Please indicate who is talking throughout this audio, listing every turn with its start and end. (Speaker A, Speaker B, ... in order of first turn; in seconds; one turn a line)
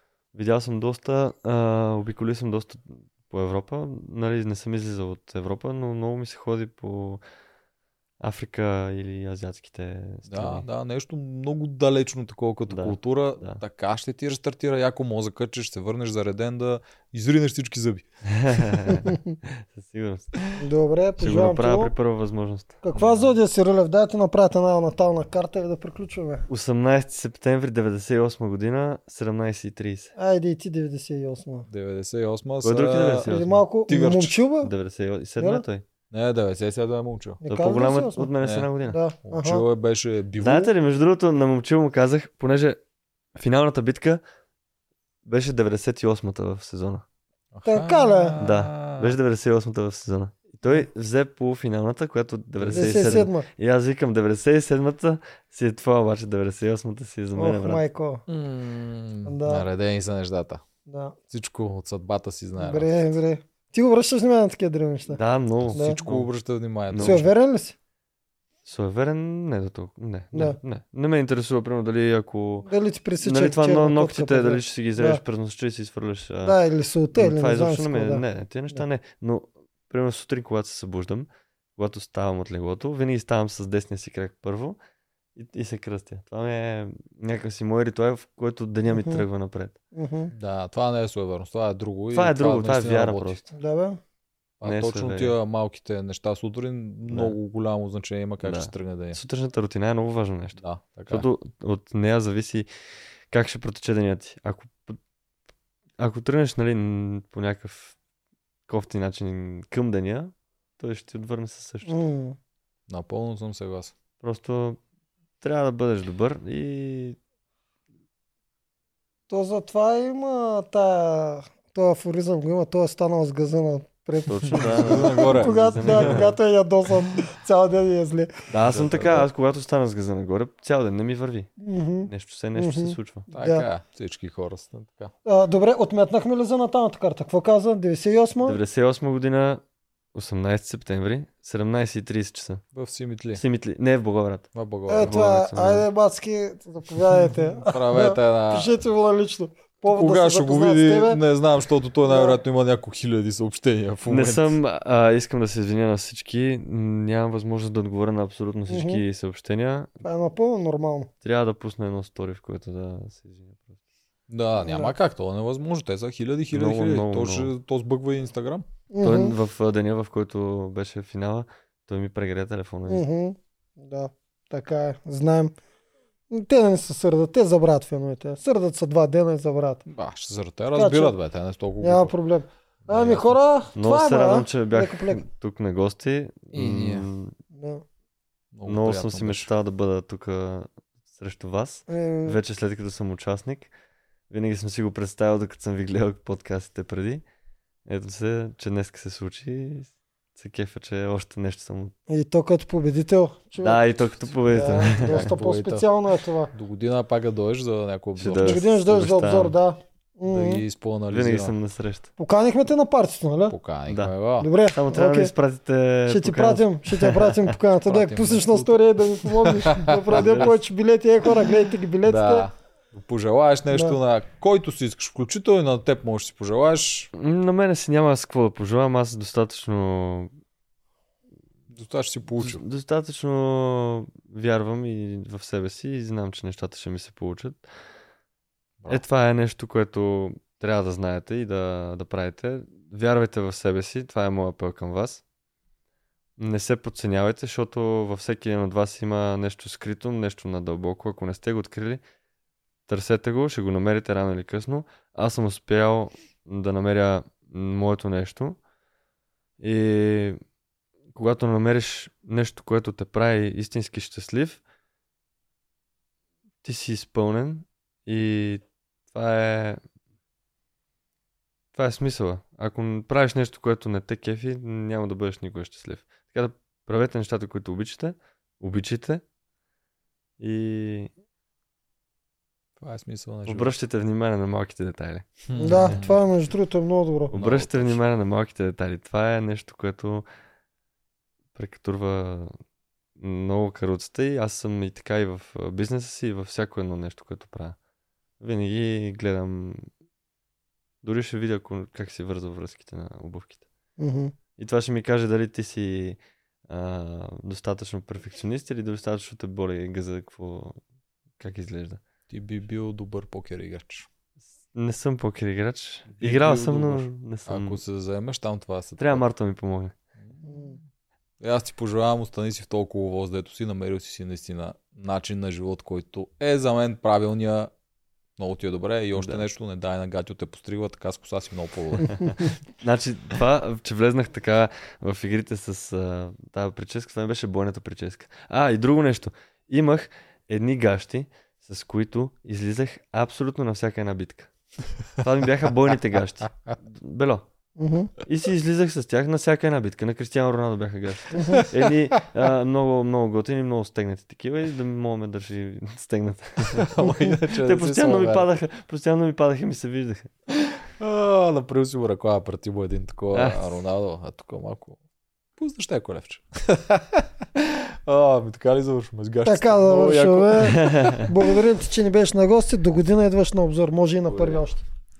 Speaker A: 0.3-7.2
Speaker A: 8.2-10.7
Speaker B: 10.3-18.7
Speaker A: 12.7-13.6
Speaker A: 18.3-20.3
Speaker C: 18.9-19.4
Speaker C: 20.6-21.9
Speaker A: 21.2-22.8
Speaker C: 22.8-26.5
Speaker A: 26.5-30.1
Speaker C: 30.2-31.7
Speaker B: 31.7-34.4
Speaker A: 32.6-33.6
Speaker C: 33.2-34.7
Speaker A: 34.6-35.9
Speaker C: 35.4-35.6
Speaker B: 36.1-37.4
Speaker C: 37.4-38.3
Speaker A: 37.5-39.0
Speaker B: 38.4-38.7
Speaker C: 38.9-39.6
Speaker B: 39.3-40.7
Speaker A: 40.4-42.8
Speaker A: 43.4-44.2
Speaker A: 45.2-47.0
Speaker B: 47.5-49.2
Speaker C: 47.7-48.4
Speaker A: 48.4-57.8
Speaker B: 52.6-53.3
Speaker C: 52.7-53.5
Speaker C: 57.4-58.2
Speaker B: 58.3-60.6
Speaker C: 59.3-59.6
Speaker C: 60.9-61.2
Speaker B: 61.3-62.9
Speaker C: 62.6-65.2
Speaker A: 65.1-66.3
Speaker B: 65.7-67.3
Speaker C: 65.7-66.0
Speaker A: 66.9-67.2
Speaker C: 67.0-67.8
Speaker A: 68.7-72.7
Speaker C: 70.3-70.6
Speaker C: 72.7-75.2
Speaker A: 73.2-76.6
Speaker C: 76.4-78.8
Speaker A: 77.1-84.8
Speaker A: 85.4-89.8
Speaker C: 88.9-89.2
Speaker C: 89.9-90.3
Speaker B: 90.3-93.4
Speaker A: 92.1-93.4
Speaker C: 93.5-94.0
Speaker B: 94.6-99.2
Speaker A: 94.6-95.4
Speaker A: 97.1-97.4
Speaker A: 98.4-102.7
Speaker B: 100.6-101.3
Speaker A: 103.3-105.0
Speaker A: 106.0-108.0
Speaker A: 108.7-112.0
Speaker C: 111.9-112.4
Speaker B: 112.9-113.9
Speaker A: 114.2-114.8
Speaker A: 115.4-117.2
Speaker C: 119.3-128.3
Speaker A: 124.3-126.4
Speaker B: 124.5-126.3
Speaker A: 128.5-131.5
Speaker B: 128.6-129.3
Speaker C: 131.6-133.7
Speaker A: 132.1-133.3
Speaker B: 133.3-135.1
Speaker C: 135.3-138.6
Speaker A: 138.4-139.6
Speaker A: 140.1-142.6
Speaker B: 142.7-143.4
Speaker A: 143.3-145.9
Speaker B: 144.6-145.2
Speaker C: 144.9-151.2
Speaker B: 147.7-148.7
Speaker B: 149.9-154.6
Speaker C: 152.0-152.4
Speaker A: 154.1-159.9
Speaker C: 158.7-159.0
Speaker C: 160.0-161.1
Speaker A: 161.2-163.8
Speaker B: 164.3-168.7
Speaker C: 164.6-164.9
Speaker A: 166.5-167.5
Speaker C: 168.9-169.3
Speaker A: 169.0-173.1
Speaker C: 172.9-175.5
Speaker C: 176.3-179.9
Speaker B: 179.9-182.2
Speaker C: 180.7-181.2
Speaker C: 181.8-185.2
Speaker B: 182.9-183.4
Speaker A: 183.8-187.3
Speaker B: 186.5-187.1
Speaker C: 187.5-187.8
Speaker B: 188.5-189.5
Speaker A: 188.7-193.7
Speaker C: 191.9-192.4
Speaker A: 194.3-197.2
Speaker A: 197.9-201.9
Speaker C: 202.1-203.8
Speaker A: 203.6-205.3
Speaker C: 204.4-206.5
Speaker B: 204.9-205.9
Speaker B: 206.5-208.6
Speaker A: 208.2-209.6
Speaker C: 208.4-210.6
Speaker B: 210.2-211.6
Speaker A: 211.1-212.1
Speaker C: 212.2-213.6
Speaker B: 213.5-214.5
Speaker C: 214.4-215.3
Speaker A: 214.7-217.6
Speaker C: 216.1-222.5
Speaker B: 217.8-218.8
Speaker B: 219.4-220.5
Speaker B: 222.0-227.1
Speaker C: 223.7-224.0
Speaker A: 227.1-230.3
Speaker B: 231.7-232.6
Speaker A: 232.4-237.6
Speaker A: 238.9-245.2
Speaker A: 246.4-252.0
Speaker A: 252.9-258.6
Speaker A: 259.6-260.4
Speaker A: 261.1-264.6
Speaker A: 266.6-269.8
Speaker A: 271.7-279.2
Speaker A: 280.4-281.1
Speaker B: 282.8-283.7
Speaker A: 283.5-286.0
Speaker B: 285.5-286.2
Speaker C: 285.6-287.3
Speaker A: 287.3-290.3
Speaker B: 287.3-288.0
Speaker A: 291.6-292.5
Speaker A: 293.2-297.8
Speaker A: 298.4-299.9
Speaker A: 301.0-303.6
Speaker C: 304.0-304.3
Speaker A: 304.6-310.8
Speaker A: 311.4-312.0
Speaker B: 312.3-314.1
Speaker A: 314.7-317.8
Speaker B: 316.1-319.2
Speaker A: 319.0-319.9
Speaker B: 320.2-320.5
Speaker C: 320.5-320.8
Speaker B: 321.4-327.7
Speaker B: 328.4-332.4
Speaker A: 329.1-329.4
Speaker A: 332.1-344.5
Speaker A: 345.2-347.5
Speaker C: 347.8-348.1
Speaker A: 348.2-360.3
Speaker C: 351.3-351.6
Speaker B: 351.4-352.2
Speaker B: 356.7-358.5
Speaker B: 360.9-365.0
Speaker A: 363.3-363.6
Speaker B: 365.6-371.4
Speaker C: 369.5-374.8
Speaker A: 370.6-371.3
Speaker A: 374.3-374.6